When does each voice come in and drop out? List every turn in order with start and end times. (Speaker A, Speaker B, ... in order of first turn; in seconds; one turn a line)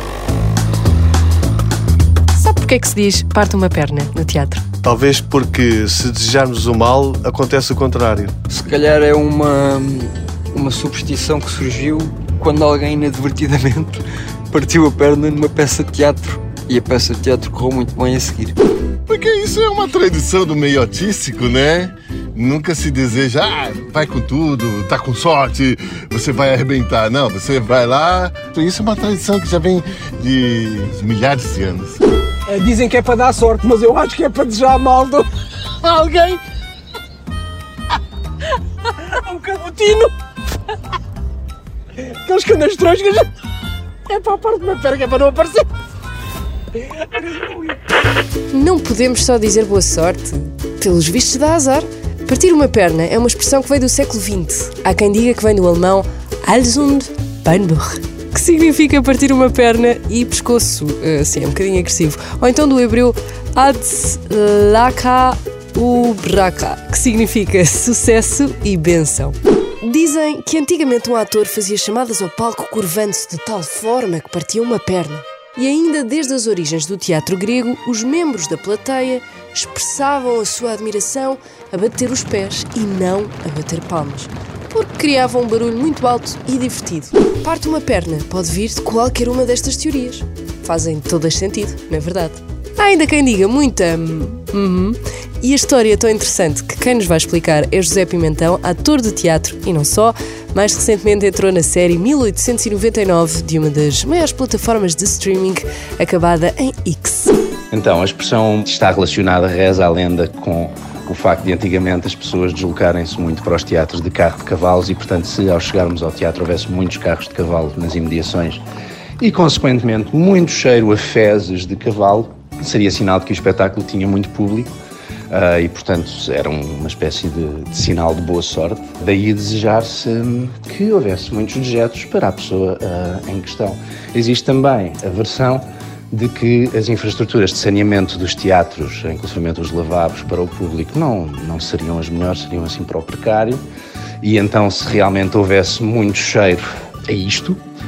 Speaker A: 2.3-4.6
Speaker B: 4.8-8.3
Speaker C: 8.5-18.5
Speaker D: 19.1-32.0
Speaker E: 32.5-35.3
Speaker E: 35.8-36.4
Speaker E: 38.9-40.1
Speaker E: 42.0-43.3
Speaker E: 44.0-45.6
Speaker E: 47.0-47.7
Speaker A: 48.5-107.3
Speaker F: 107.7-118.6
Speaker F: 119.2-124.7
Speaker F: 125.3-143.6
Speaker F: 144.2-147.6